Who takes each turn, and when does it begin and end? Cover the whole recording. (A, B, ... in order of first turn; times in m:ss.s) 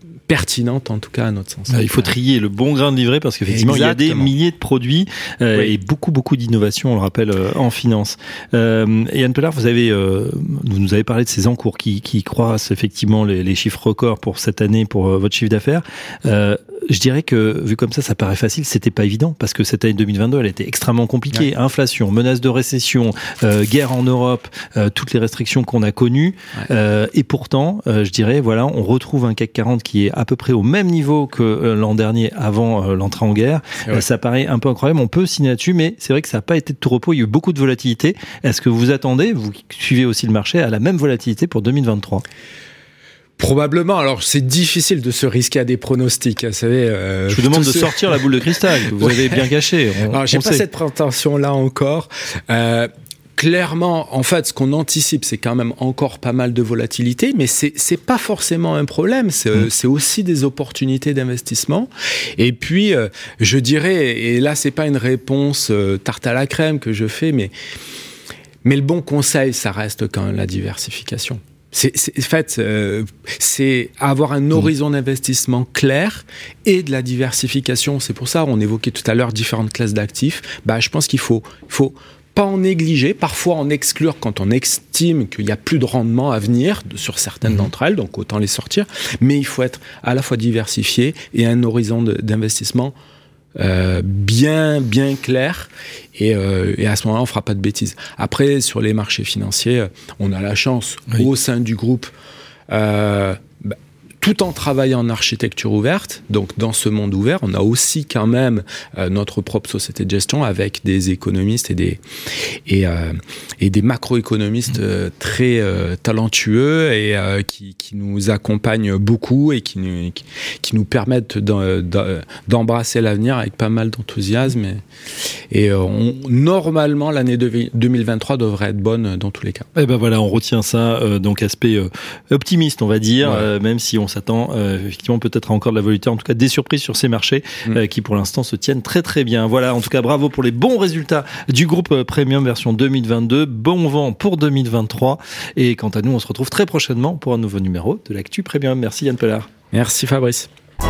0:00.3-0:02.1 A
0:01.7-0:42.2 B
0:03.4-0:04.3 A
0:43.4-0:48.2 A
0:47.3-0:50.6 B
0:48.8-0:49.5 A
0:50.1-1:07.5 A
1:08.6-1:32.9 A
1:33.6-1:42.1 A
1:42.7-1:52.0 A
1:52.7-2:04.8 A
2:05.5-2:09.7 A
2:09.8-2:29.5 B
2:13.2-2:13.5 A
2:29.7-2:30.5 A